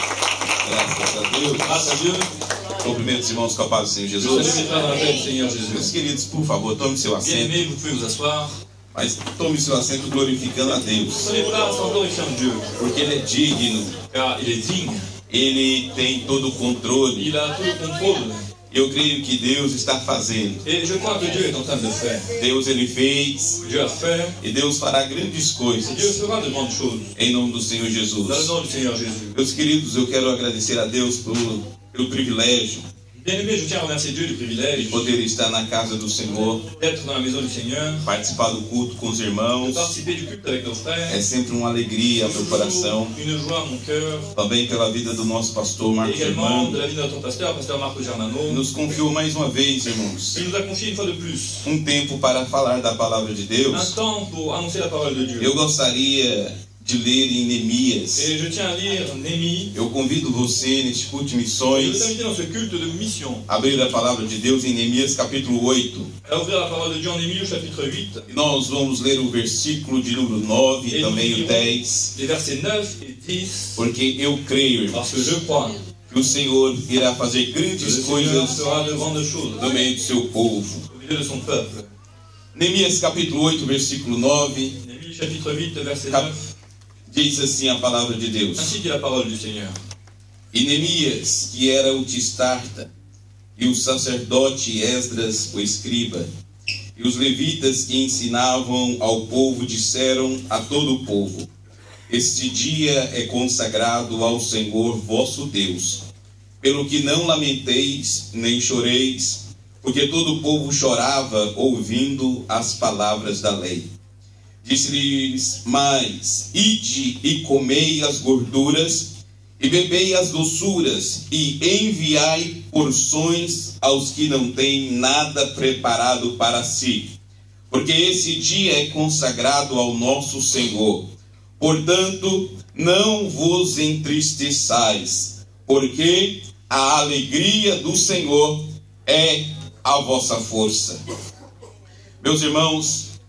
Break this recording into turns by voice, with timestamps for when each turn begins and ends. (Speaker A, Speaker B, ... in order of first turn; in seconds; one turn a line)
Speaker A: 0.6-1.9
Speaker B: 1.6-2.3
Speaker A: 2.8-4.7
Speaker B: 4.2-5.9
Speaker A: 5.7-7.7
Speaker B: 7.2-8.6
Speaker A: 8.9-11.3
Speaker B: 11.2-12.7
Speaker A: 12.8-13.9
Speaker B: 14.1-15.1
Speaker A: 15.3-17.3
Speaker B: 17.2-18.5
Speaker A: 18.7-20.6
Speaker B: 20.6-22.3
Speaker A: 22.4-23.6
Speaker B: 23.6-24.4
Speaker A: 24.4-26.1
Speaker B: 25.8-27.1
Speaker A: 27.2-28.5
Speaker B: 28.2-29.3
Speaker A: 29.3-32.9
Speaker B: 33.2-35.1
Speaker A: 34.8-36.6
Speaker B: 36.7-38.1
Speaker A: 38.0-39.9
Speaker B: 39.6-41.2
Speaker A: 41.1-43.1
Speaker B: 42.2-44.3
Speaker A: 44.4-46.8
Speaker B: 46.0-48.6
Speaker A: 48.5-50.4
Speaker B: 50.3-51.6
Speaker A: 51.6-53.9
Speaker B: 53.7-55.5
Speaker A: 55.4-58.3
Speaker B: 58.1-59.7
Speaker A: 59.7-62.1
Speaker B: 61.7-63.4
Speaker A: 63.5-66.1
Speaker B: 66.3-68.3
Speaker A: 68.3-72.1
Speaker B: 70.9-73.8
Speaker A: 73.8-75.1
Speaker B: 74.9-75.8
Speaker A: 76.1-78.6
Speaker B: 77.8-79.7
Speaker A: 79.6-80.8
Speaker B: 80.9-81.9
Speaker A: 82.5-84.8
Speaker B: 84.8-86.4
Speaker A: 87.1-88.7
Speaker B: 88.6-89.8
Speaker A: 90.5-92.9
Speaker A: 93.6-96.3
Speaker A: 97.0-101.5
Speaker A: 102.1-106.0
Speaker A: 106.6-113.9
Speaker A: 114.6-127.1
Speaker A: 127.7-131.1
Speaker A: 131.6-141.0
Speaker A: 142.2-143.1